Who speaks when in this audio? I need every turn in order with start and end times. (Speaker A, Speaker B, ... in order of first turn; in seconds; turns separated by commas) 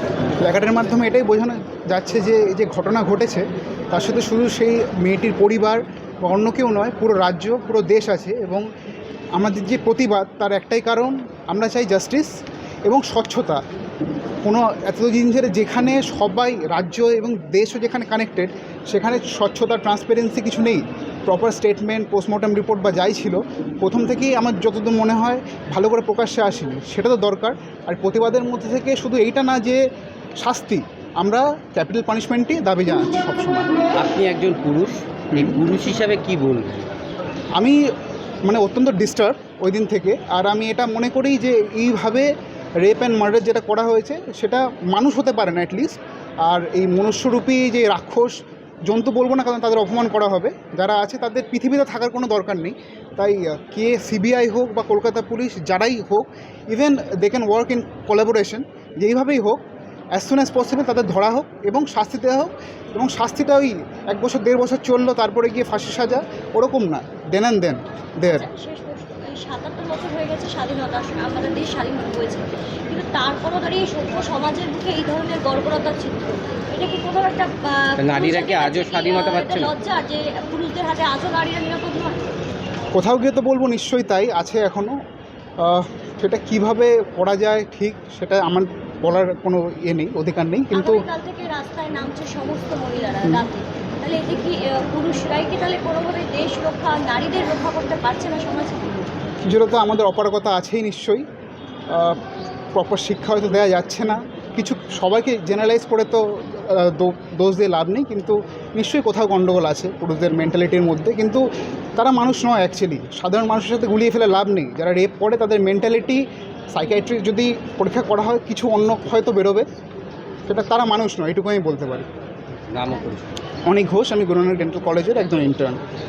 Speaker A: 0.4-8.7, Speaker A: 9.3-13.6, Speaker A: 14.4-29.8, Speaker A: 30.4-33.7, Speaker B: 33.9-36.9, Speaker A: 38.4-59.6, Speaker A: 60.1-68.5, Speaker C: 68.3-82.2, Speaker B: 78.0-79.7, Speaker A: 82.9-85.0, Speaker A: 85.6-91.0, Speaker C: 90.7-99.1, Speaker A: 99.4-101.2, Speaker A: 101.9-102.2, Speaker A: 102.7-119.7, Speaker A: 120.5-122.1, Speaker B: 122.7-123.3, Speaker A: 123.7-125.8